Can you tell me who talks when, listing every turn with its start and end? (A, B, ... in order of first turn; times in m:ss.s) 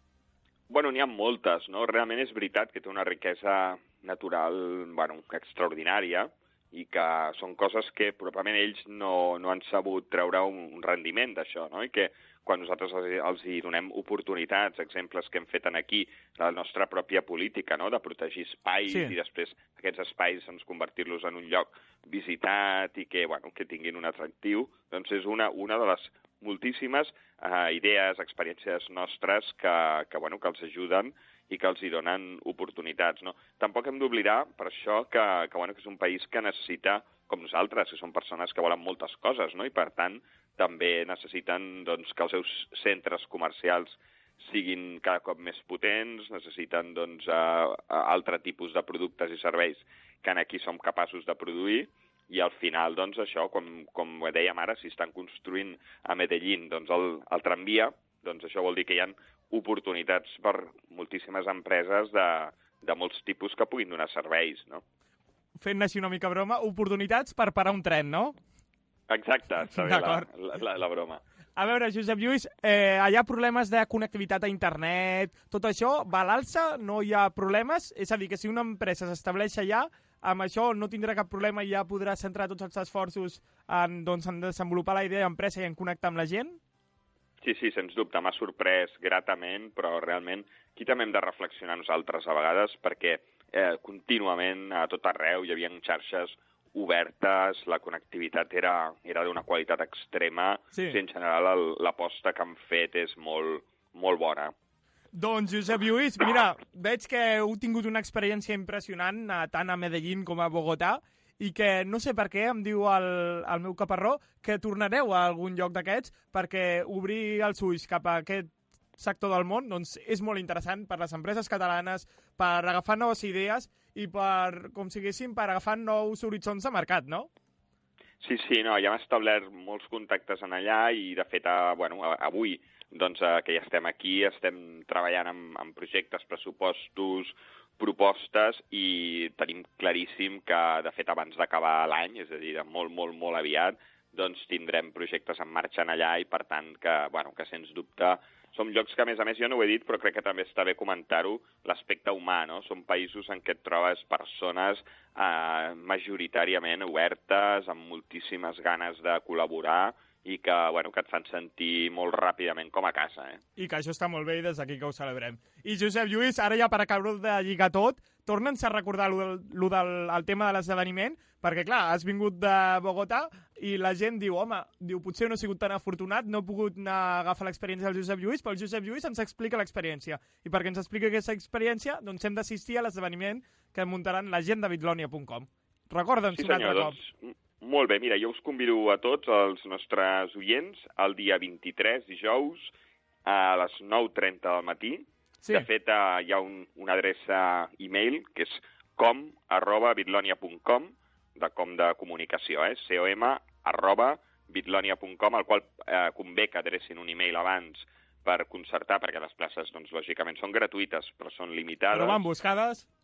0:00.7-1:04.8 A
0:18.9-0:19.1 B
1:05.6-1:08.3 B
1:09.1-1:11.2 A
1:09.7-1:10.2 B
1:11.6-1:26.6 B
1:27.4-1:44.5 A
1:40.7-1:41.0 B
1:45.1-2:07.3 B
2:08.2-2:43.4 A
2:43.6-3:07.0 B
3:06.3-3:12.7 A
3:13.2-3:32.2 A
3:15.4-3:15.7 B
3:31.9-3:32.9 B